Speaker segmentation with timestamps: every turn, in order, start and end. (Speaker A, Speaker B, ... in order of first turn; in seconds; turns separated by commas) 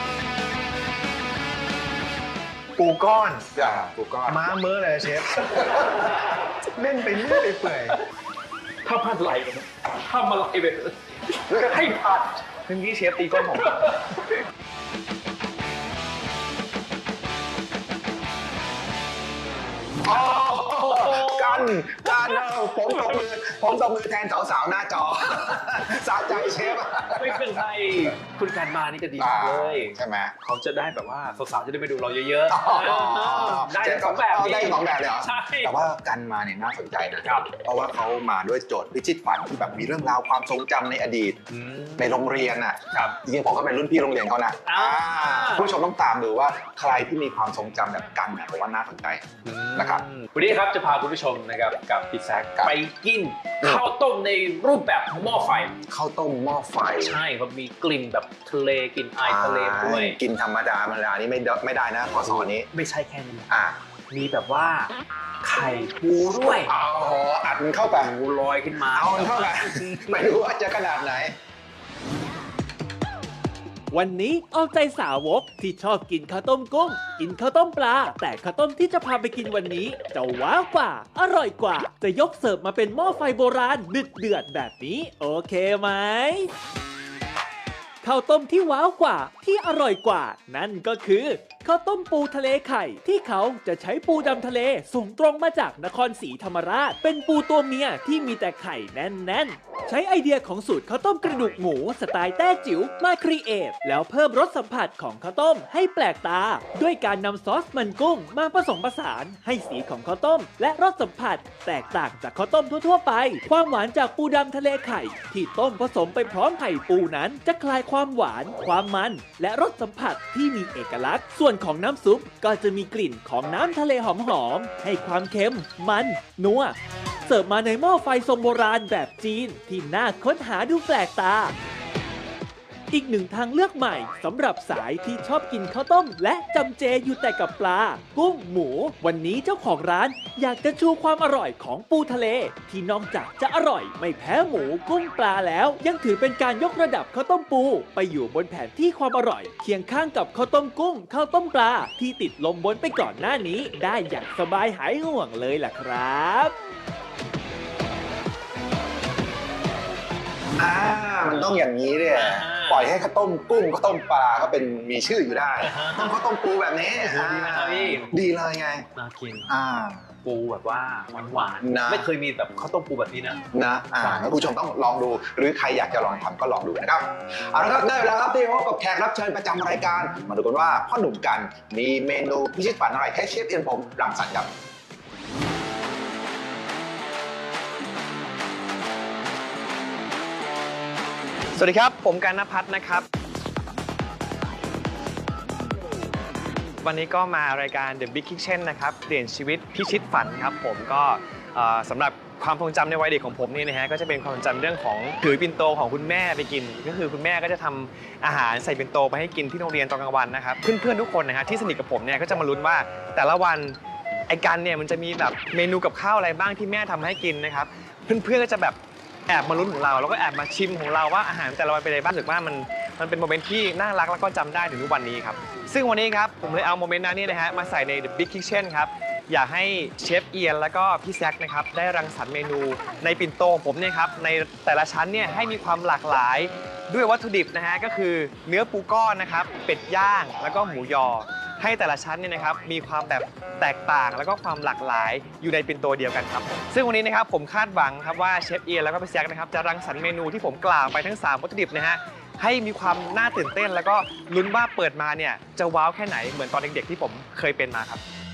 Speaker A: 2.8-3.5, Speaker B: 3.6-3.9, Speaker C: 3.6-4.4, Speaker A: 4.3-5.9, Speaker B: 5.5-6.1, Speaker A: 6.7-8.0, Speaker C: 7.5-8.0, Speaker C: 8.8-12.4, Speaker A: 12.7-13.8, Speaker C: 13.3-14.4, Speaker B: 20.0-27.6, Speaker C: 20.1-22.4, Speaker C: 22.9-23.2, Speaker C: 27.1-35.7, Speaker B: 29.2-30.4, Speaker B: 32.5-41.4, Speaker C: 37.2-37.5, Speaker C: 41.5-42.2, Speaker B: 42.0-50.1, Speaker C: 42.9-43.2, Speaker C: 44.7-45.7, Speaker C: 49.5-55.8, Speaker B: 55.9-57.2, Speaker C: 57.0-60.2, Speaker B: 59.2-62.7, Speaker C: 62.2-63.5, Speaker B: 63.5-63.8, Speaker C: 64.1-66.7, Speaker B: 66.7-68.1, Speaker C: 68.0-70.4, Speaker B: 68.9-71.3, Speaker D: 73.9-86.5, Speaker D: 88.0-126.8, Speaker D: 127.3-131.6, Speaker D: 132.9-156.5, Speaker B: 160.6-168.9, Speaker C: 162.1-162.9, Speaker C: 165.6-166.2, Speaker C: 166.9-168.2, Speaker C: 169.0-169.5, Speaker B: 169.5-170.1, Speaker C: 170.2-173.4, Speaker B: 171.6-172.1, Speaker B: 173.5-184.5, Speaker C: 174.0-174.5, Speaker A: 191.6-193.1, Speaker A: 196.8-213.8, Speaker A: 214.3-258.0